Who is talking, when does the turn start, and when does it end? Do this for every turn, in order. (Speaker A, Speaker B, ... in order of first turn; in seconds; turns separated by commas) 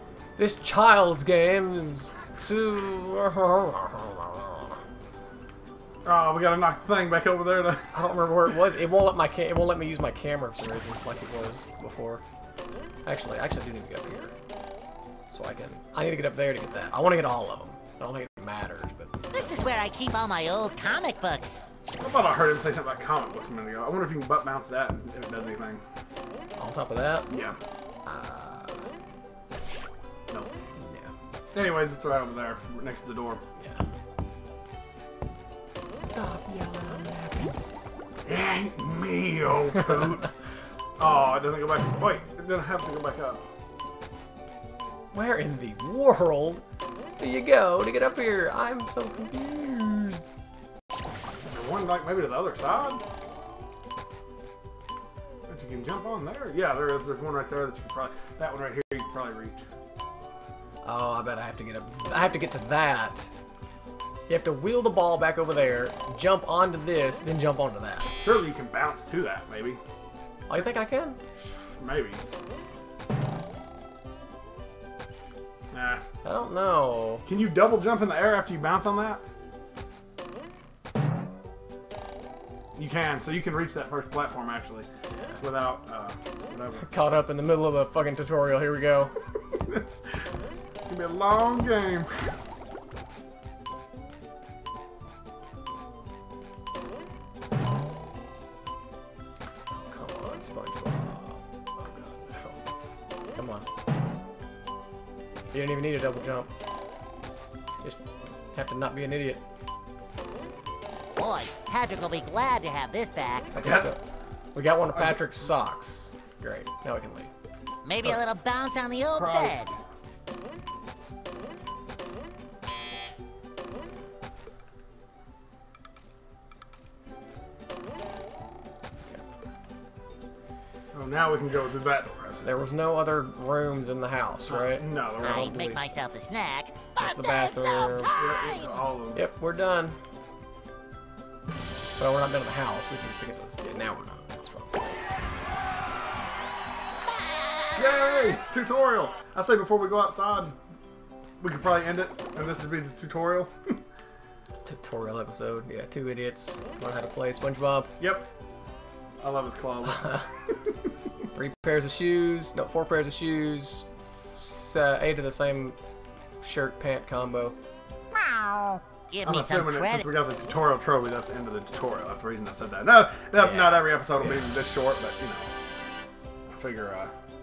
Speaker A: 0.4-4.8, Speaker B: 6.0-8.5, Speaker A: 7.9-12.2, Speaker A: 13.1-14.3, Speaker A: 15.3-19.7, Speaker C: 19.3-21.6, Speaker B: 22.0-25.8, Speaker A: 26.6-27.3, Speaker B: 27.3-27.6, Speaker A: 28.1-28.9, Speaker A: 30.8-31.1, Speaker B: 31.5-33.4, Speaker A: 36.0-37.6, Speaker B: 38.2-40.3, Speaker B: 41.0-43.4, Speaker A: 45.1-46.6, Speaker A: 47.2-50.3, Speaker B: 51.4-53.0, Speaker B: 55.5-59.6, Speaker A: 60.8-63.3, Speaker A: 64.3-68.1, Speaker B: 68.2-69.8, Speaker A: 70.5-71.2, Speaker B: 71.4-72.2, Speaker B: 75.7-76.0, Speaker A: 76.2-77.2, Speaker B: 77.3-79.2, Speaker B: 82.8-84.9, Speaker A: 85.1-85.4, Speaker B: 85.4-86.9, Speaker A: 86.8-89.1, Speaker B: 89.5-90.3, Speaker B: 90.9-92.3, Speaker A: 99.7-102.6, Speaker A: 103.4-103.7, Speaker A: 105.5-106.5, Speaker A: 107.8-109.4, Speaker C: 111.2-113.5, Speaker B: 113.5-114.0, Speaker A: 113.5-114.0, Speaker A: 114.5-117.3, Speaker C: 117.8-119.7, Speaker B: 119.1-119.8, Speaker B: 130.8-132.5, Speaker A: 132.4-136.0, Speaker B: 134.5-135.5, Speaker C: 135.2-138.8, Speaker A: 137.0-138.2, Speaker B: 138.2-139.2, Speaker A: 139.2-140.0, Speaker A: 142.0-145.0, Speaker C: 147.1-148.3, Speaker B: 147.8-150.6, Speaker B: 151.4-153.8, Speaker A: 154.7-157.9, Speaker B: 158.0-158.3, Speaker B: 159.2-160.7, Speaker A: 160.0-160.2, Speaker A: 161.3-165.8, Speaker A: 166.4-167.6, Speaker C: 168.1-170.1, Speaker B: 169.2-175.5, Speaker A: 173.4-174.4, Speaker B: 176.5-177.1